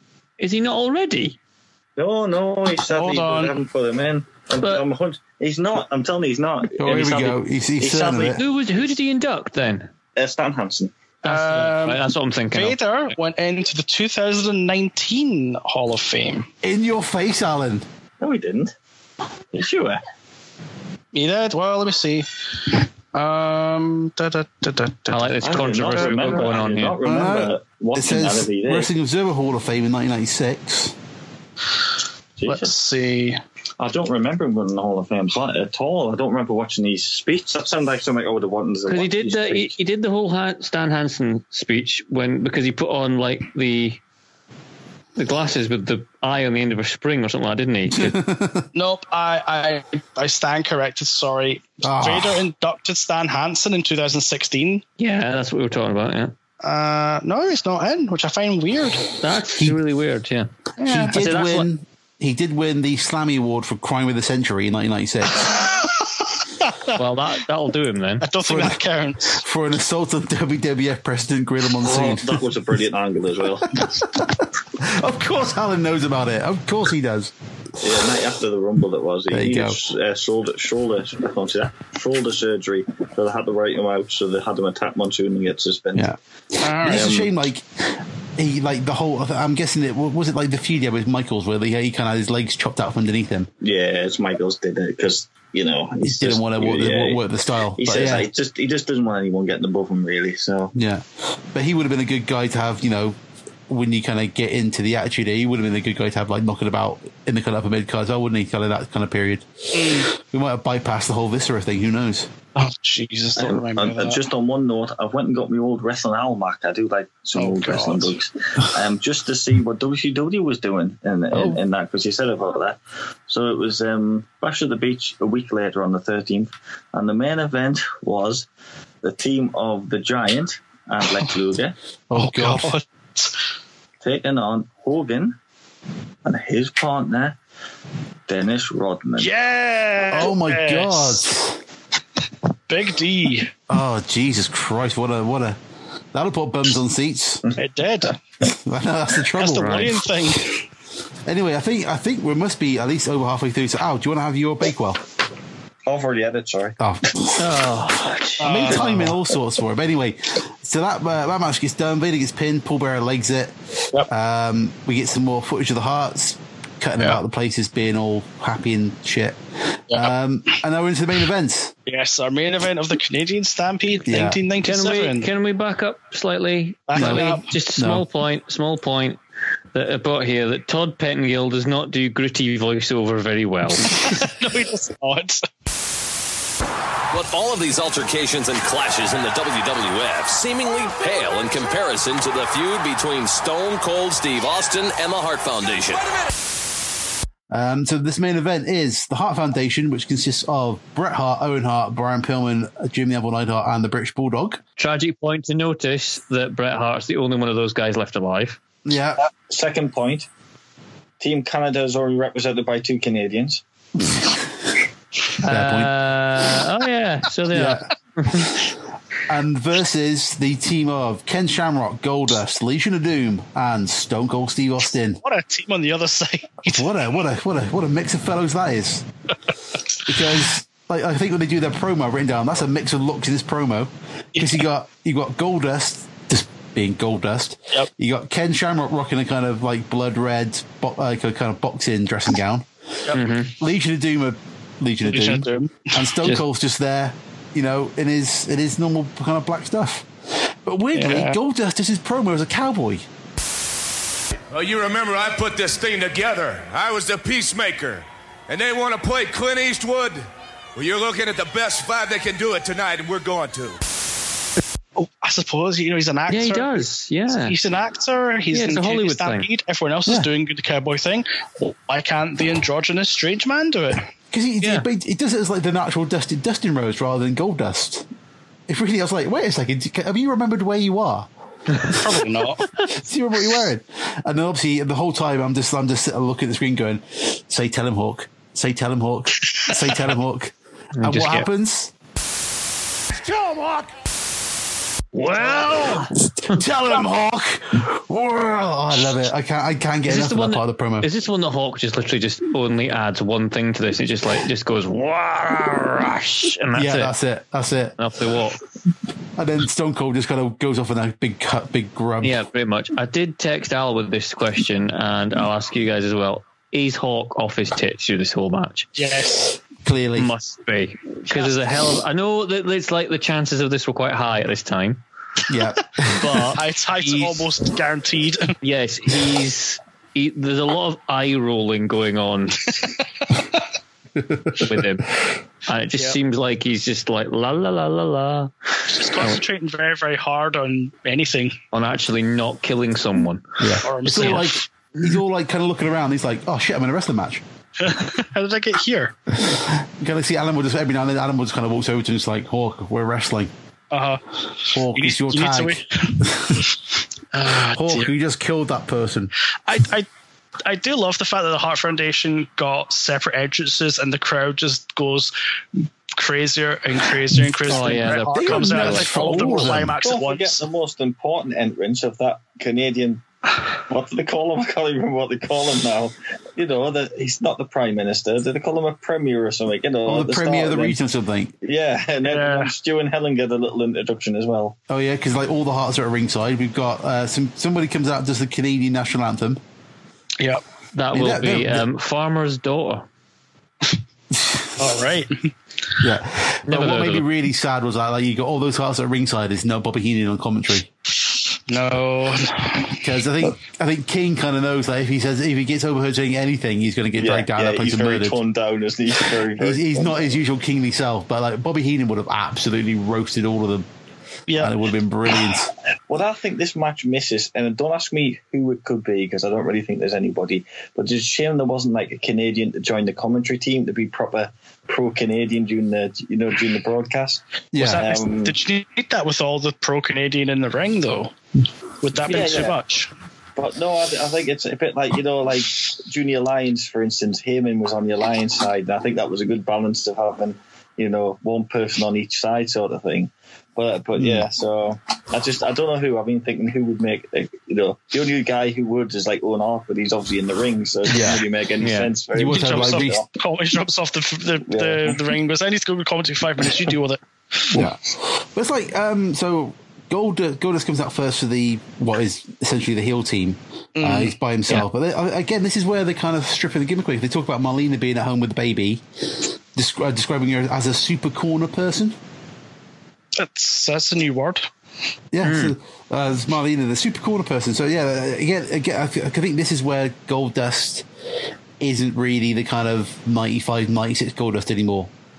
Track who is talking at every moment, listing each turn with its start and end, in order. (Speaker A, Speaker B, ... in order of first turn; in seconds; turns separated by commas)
Speaker A: 0.4-1.4, Speaker B: 2.0-8.4, Speaker C: 2.9-3.6, Speaker D: 6.8-8.4, Speaker A: 8.3-9.9, Speaker B: 10.2-10.9, Speaker A: 11.2-12.8, Speaker C: 11.2-16.5, Speaker D: 16.6-17.8, Speaker B: 18.2-18.7, Speaker B: 19.5-20.0, Speaker C: 21.1-26.5, Speaker A: 25.1-27.0, Speaker B: 25.4-28.9, Speaker D: 27.0-30.9, Speaker B: 32.4-32.7, Speaker C: 32.5-33.4, Speaker B: 33.8-39.7, Speaker A: 38.9-44.0, Speaker A: 45.1-48.2, Speaker D: 47.9-48.7, Speaker C: 48.7-54.8, Speaker D: 51.8-52.5, Speaker A: 55.0-56.3, Speaker C: 56.6-59.1, Speaker A: 59.2-61.7, Speaker C: 60.8-61.1, Speaker D: 60.8-65.8, Speaker C: 66.6-67.0, Speaker A: 66.9-68.2, Speaker C: 68.2-69.4, Speaker D: 68.5-72.4, Speaker B: 71.8-73.9, Speaker D: 73.7-77.3, Speaker B: 77.8-86.1, Speaker D: 79.3-79.8, Speaker D: 85.9-93.5, Speaker C: 86.6-87.1, Speaker B: 86.9-87.3, Speaker B: 93.6-97.2, Speaker D: 96.0-98.3, Speaker B: 97.8-100.7, Speaker D: 100.7-103.2, Speaker D: 103.7-112.3, Speaker C: 109.7-110.1, Speaker C: 112.5-114.2, Speaker B: 113.4-128.5, Speaker C: 117.3-118.2, Speaker D: 121.3-121.6, Speaker B: 129.0-131.7, Speaker D: 132.1-132.7, Speaker C: 132.1-133.3, Speaker B: 134.0-135.4, Speaker B: 136.2-137.4, Speaker B: 138.3-139.3, Speaker C: 139.2-141.3, Speaker D: 140.1-141.6, Speaker C: 142.7-143.5, Speaker D: 143.7-145.6, Speaker D: 146.1-147.4, Speaker C: 147.6-148.2, Speaker D: 148.4-150.1, Speaker C: 149.3-150.6, Speaker A: 149.6-149.9, Speaker D: 151.2-155.0, Speaker B: 155.8-156.8, Speaker D: 156.8-157.5, Speaker A: 157.4-158.7, Speaker C: 158.4-159.2, Speaker D: 158.4-171.7, Speaker C: 171.9-175.3, Speaker D: 174.0-174.4, Speaker A: 174.6-179.2, Speaker C: 176.9-177.5, Speaker D: 176.9-178.0, Speaker A: 179.7-183.9, Speaker C: 183.9-185.4, Speaker E: 187.1-196.1, Speaker D: 197.5-204.6, Speaker A: 204.8-208.6, Speaker D: 208.8-209.2, Speaker B: 209.5-210.3, Speaker B: 211.2-213.6, Speaker A: 215.4-218.6, Speaker D: 215.4-215.9, Speaker D: 217.5-217.9, Speaker D: 219.3-225.2, Speaker C: 225.2-226.9, Speaker D: 226.7-229.1, Speaker D: 230.1-253.1, Speaker C: 234.3-234.7, Speaker A: 243.1-243.5, Speaker C: 245.0-246.0, Speaker C: 250.9-251.4, Speaker F: 254.5-263.8, Speaker C: 265.0-274.1, Speaker A: 266.3-267.6, Speaker A: 268.5-269.5, Speaker D: 274.3-278.1, Speaker A: 274.6-274.9, Speaker D: 278.7-281.3, Speaker C: 281.9-282.7, Speaker D: 282.8-291.9, Speaker A: 290.9-291.5, Speaker A: 295.1-296.6, Speaker D: 295.4-301.1, Speaker A: 300.1-307.1, Speaker D: 306.7-307.9, Speaker A: 308.0-308.6, Speaker D: 309.4-312.4, Speaker A: 312.2-318.9, Speaker C: 318.9-319.6, Speaker D: 319.8-320.3, Speaker A: 320.2-325.0, Speaker C: 321.3-321.6, Speaker D: 325.5-326.6, Speaker A: 326.1-327.4, Speaker C: 326.5-328.5, Speaker A: 328.6-332.9, Speaker D: 334.3-334.6, Speaker A: 334.6-335.1, Speaker A: 335.7-339.4, Speaker C: 338.9-341.6, Speaker A: 341.7-343.4, Speaker D: 343.6-347.4, Speaker C: 343.8-344.6, Speaker A: 344.1-344.4, Speaker C: 347.8-349.1, Speaker D: 349.3-353.5, Speaker C: 353.9-356.7, Speaker D: 354.7-356.7, Speaker C: 357.3-358.1, Speaker D: 357.7-359.3, Speaker C: 359.7-360.1, Speaker C: 360.6-365.3, Speaker C: 366.1-370.6, Speaker A: 367.7-369.6, Speaker D: 367.8-369.9, Speaker B: 370.0-373.2, Speaker B: 373.9-381.0, Speaker D: 380.0-381.5, Speaker B: 381.6-384.8, Speaker C: 382.2-382.7, Speaker D: 384.9-389.6, Speaker A: 390.9-393.1, Speaker D: 391.1-391.9, Speaker D: 394.3-395.0, Speaker C: 394.8-395.5, Speaker D: 396.0-400.9, Speaker A: 396.7-397.2, Speaker C: 401.7-403.0, Speaker D: 403.0-408.4, Speaker B: 407.2-410.4, Speaker D: 409.5-413.9, Speaker C: 414.5-414.8, Speaker D: 414.6-415.7, Speaker B: 416.1-427.4, Speaker D: 427.7-428.1, Speaker C: 427.8-431.3, Speaker B: 428.0-428.6, Speaker C: 432.0-433.1, Speaker B: 432.2-432.8, Speaker B: 433.6-453.2, Speaker D: 444.1-444.5, Speaker D: 451.1-451.4, Speaker A: 451.8-452.1, Speaker D: 452.3-453.2, Speaker C: 452.5-457.9, Speaker B: 454.6-455.2, Speaker D: 457.7-469.0, Speaker C: 463.9-464.3, Speaker D: 469.7-472.2, Speaker C: 473.4-474.7, Speaker D: 475.3-481.1, Speaker A: 475.4-475.7, Speaker D: 481.8-485.1